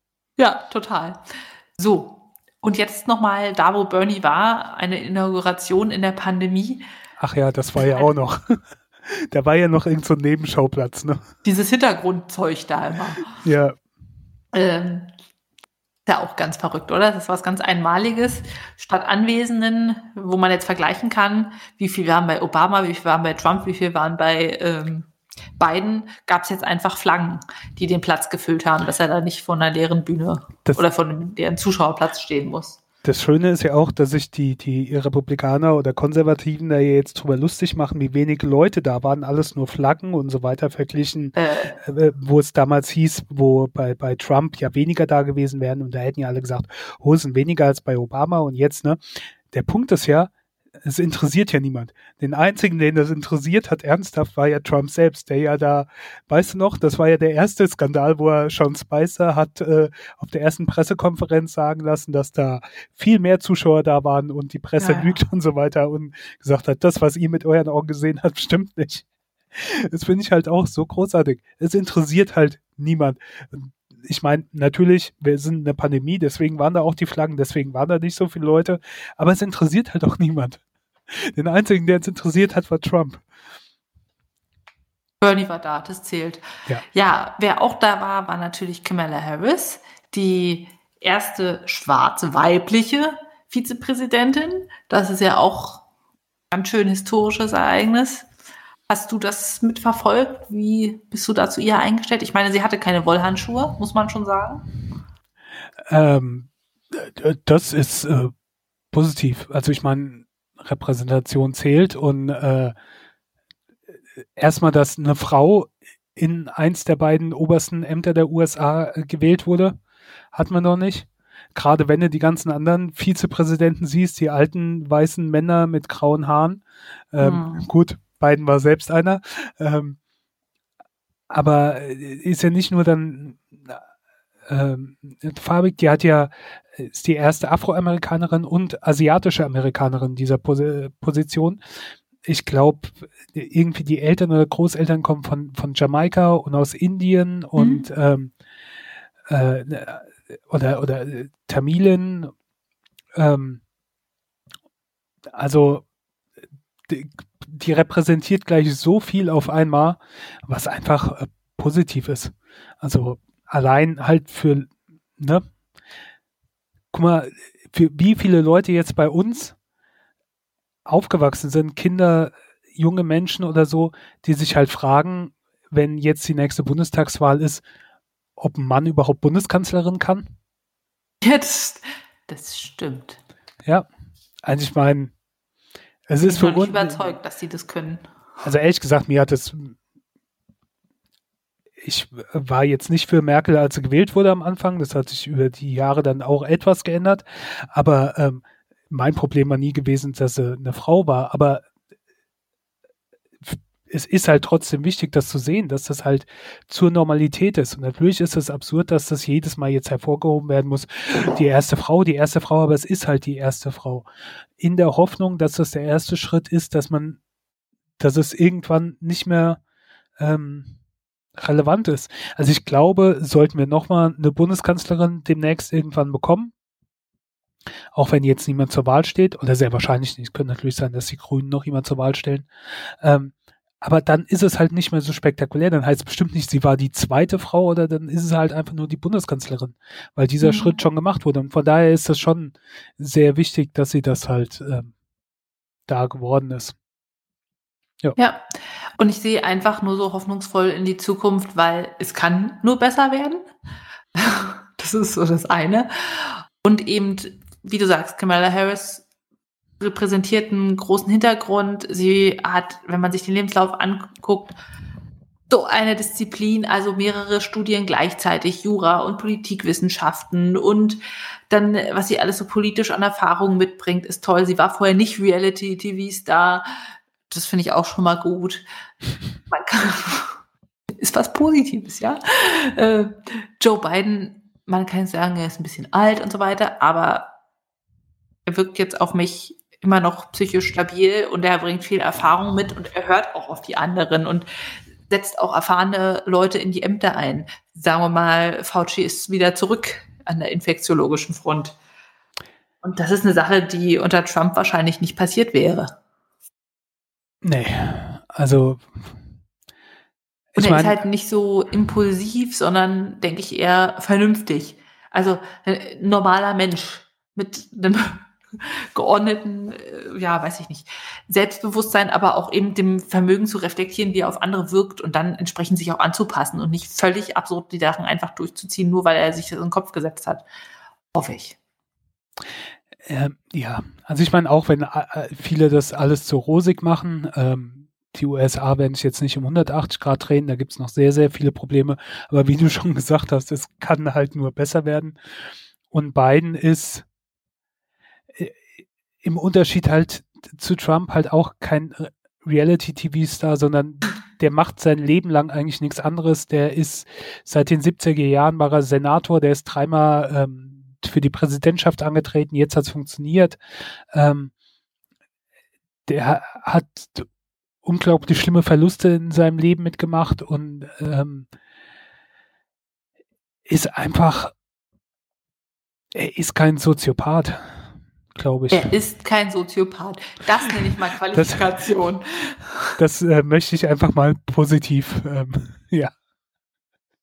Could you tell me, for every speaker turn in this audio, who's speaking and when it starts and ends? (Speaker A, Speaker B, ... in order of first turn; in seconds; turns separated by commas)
Speaker A: 0.4-1.2, Speaker A: 1.8-6.8, Speaker B: 7.2-11.2, Speaker A: 11.4-13.3, Speaker B: 13.3-13.8, Speaker A: 14.5-15.1, Speaker A: 16.1-25.1, Speaker A: 25.6-32.8, Speaker B: 33.0-50.3, Speaker A: 41.4-41.8, Speaker B: 50.8-83.2, Speaker A: 64.8-65.2, Speaker A: 85.2-95.8, Speaker A: 96.5-98.3, Speaker A: 98.9-104.7, Speaker B: 105.9-108.3, Speaker B: 108.9-112.7, Speaker B: 114.2-119.8, Speaker B: 120.3-130.0, Speaker A: 127.2-127.7, Speaker B: 131.3-133.8, Speaker B: 134.5-141.6, Speaker B: 142.2-148.3, Speaker A: 147.6-147.8, Speaker B: 149.3-152.3, Speaker B: 153.2-153.6, Speaker B: 155.3-155.8, Speaker B: 156.9-165.4, Speaker B: 166.9-169.6, Speaker B: 170.9-177.6, Speaker B: 178.4-180.3, Speaker A: 181.2-183.2, Speaker B: 184.4-185.1, Speaker B: 186.1-187.0, Speaker A: 186.2-188.0, Speaker B: 188.4-189.8, Speaker B: 191.8-201.6, Speaker B: 203.4-214.1, Speaker B: 214.6-217.2, Speaker B: 218.0-219.6, Speaker B: 220.2-220.7, Speaker B: 221.4-226.5, Speaker B: 227.9-232.5, Speaker B: 233.0-244.9, Speaker A: 240.4-240.8, Speaker B: 245.9-246.8, Speaker A: 248.2-248.4, Speaker A: 249.0-253.5, Speaker A: 254.2-259.1, Speaker A: 259.8-264.5, Speaker A: 265.5-276.7, Speaker A: 277.3-278.6, Speaker A: 279.5-280.4, Speaker A: 281.0-287.3, Speaker A: 288.5-294.5, Speaker A: 295.1-301.8, Speaker A: 302.8-305.9, Speaker B: 307.4-309.2, Speaker B: 310.5-311.0, Speaker A: 310.6-330.4, Speaker A: 331.1-331.6, Speaker B: 333.0-345.2, Speaker B: 345.9-347.1, Speaker B: 348.3-348.7, Speaker B: 349.2-363.6, Speaker B: 364.1-364.5, Speaker B: 366.1-367.3, Speaker B: 367.8-371.5, Speaker B: 373.7-374.5, Speaker B: 376.1-378.9, Speaker A: 378.7-382.9, Speaker B: 381.3-381.6, Speaker B: 383.0-386.1